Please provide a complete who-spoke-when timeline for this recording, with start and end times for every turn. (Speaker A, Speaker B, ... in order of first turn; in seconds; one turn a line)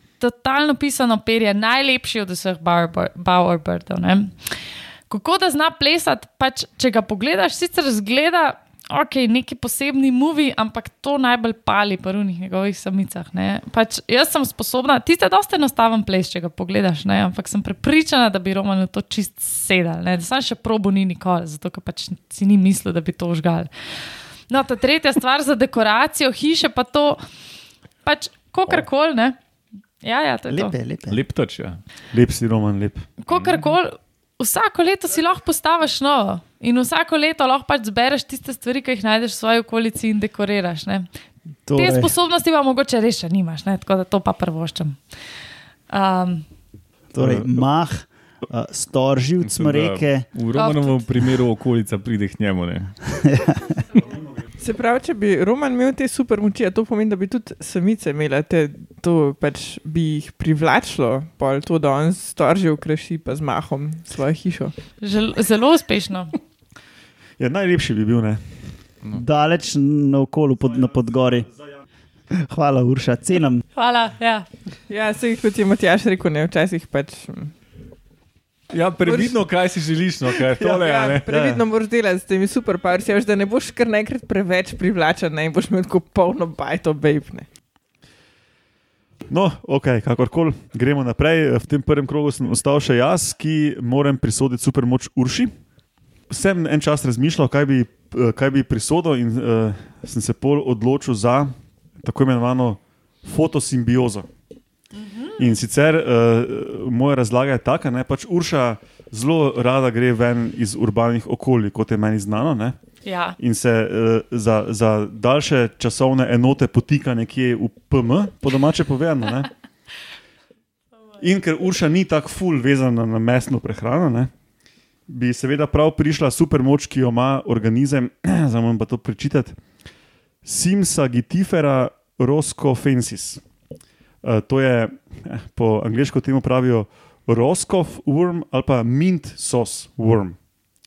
Speaker A: 0.2-27.2
Speaker A: 28.0-29.4
Speaker A: 30.0-30.8
Speaker B: 30.5-31.2
Speaker C: 31.1-31.8
Speaker D: 32.1-33.1
Speaker A: 33.2-41.1
Speaker C: 33.3-33.8
Speaker B: 41.7-42.1
Speaker A: 41.8-45.0
Speaker A: 45.9-46.5
Speaker B: 47.1-50.2
Speaker C: 47.2-47.6
Speaker C: 49.4-53.0
Speaker A: 50.5-51.4
Speaker B: 53.1-53.8
Speaker E: 54.6-64.7
Speaker A: 65.0-66.3
Speaker D: 67.4-68.4
Speaker B: 69.1-71.6
Speaker B: 72.3-73.6
Speaker A: 73.7-74.5
Speaker E: 74.9-77.5
Speaker C: 78.7-81.3
Speaker E: 79.0-79.3
Speaker E: 80.6-87.5
Speaker D: 80.7-81.6
Speaker D: 89.3-95.5
Speaker D: 96.3-104.3
Speaker A: 104.9-105.5
Speaker D: 105.4-112.8
Speaker A: 113.0-113.4
Speaker D: 113.4-119.5
Speaker D: 121.2-124.3
Speaker D: 125.1-129.6
Speaker D: 130.4-133.4
Speaker D: 134.2-140.4